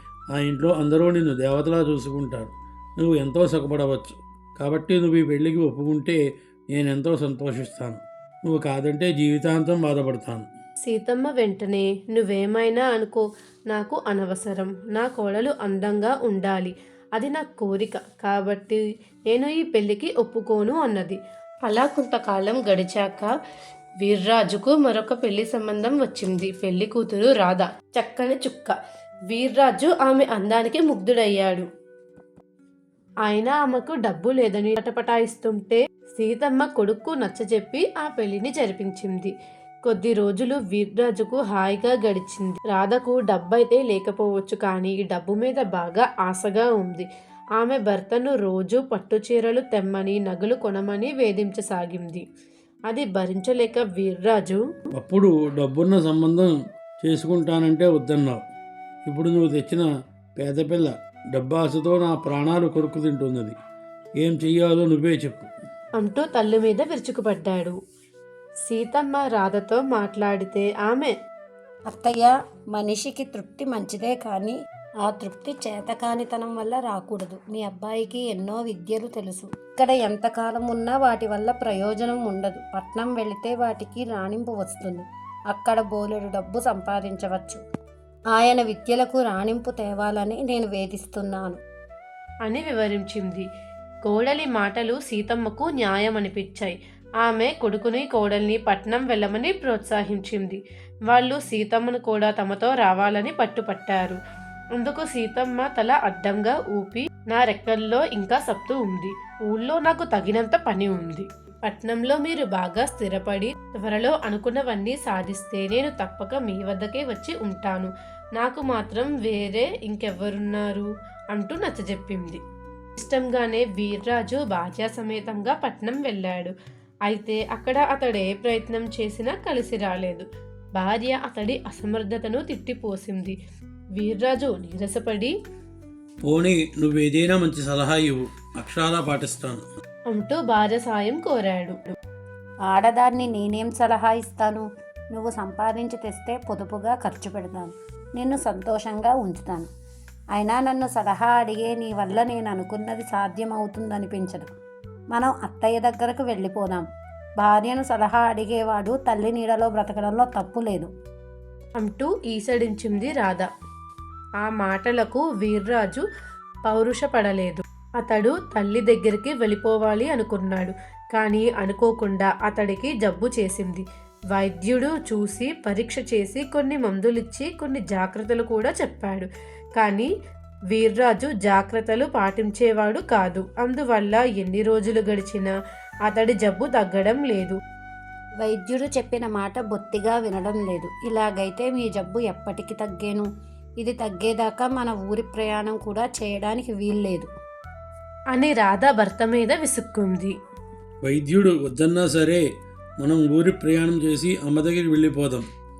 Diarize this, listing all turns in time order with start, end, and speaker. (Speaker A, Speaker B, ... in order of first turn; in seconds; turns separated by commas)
Speaker A: 0.3-6.2, Speaker A: 6.7-10.5, Speaker B: 10.8-18.8, Speaker B: 19.3-23.3, Speaker B: 24.0-28.8, Speaker B: 29.3-31.7, Speaker B: 33.2-39.3, Speaker B: 39.8-52.2, Speaker B: 52.9-54.6, Speaker A: 55.0-58.4, Speaker A: 59.0-63.6, Speaker A: 64.2-65.5, Speaker B: 66.0-67.7, Speaker B: 68.6-71.1, Speaker C: 71.9-87.6, Speaker C: 88.3-91.6, Speaker B: 92.4-93.4, Speaker B: 94.0-104.2, Speaker B: 104.7-122.4, Speaker B: 123.0-126.5, Speaker B: 127.1-130.2, Speaker B: 130.8-133.4, Speaker B: 133.9-135.3, Speaker A: 136.2-139.7, Speaker B: 140.1-141.9, Speaker C: 142.7-149.7, Speaker C: 150.3-154.5, Speaker C: 155.1-156.8, Speaker C: 157.4-160.9, Speaker B: 161.8-163.5, Speaker B: 164.4-166.0, Speaker B: 166.7-180.1, Speaker B: 180.7-185.5, Speaker B: 186.0-187.6, Speaker C: 188.4-193.2, Speaker C: 193.8-197.3, Speaker B: 198.3-200.3, Speaker A: 201.0-202.4, Speaker A: 203.0-205.4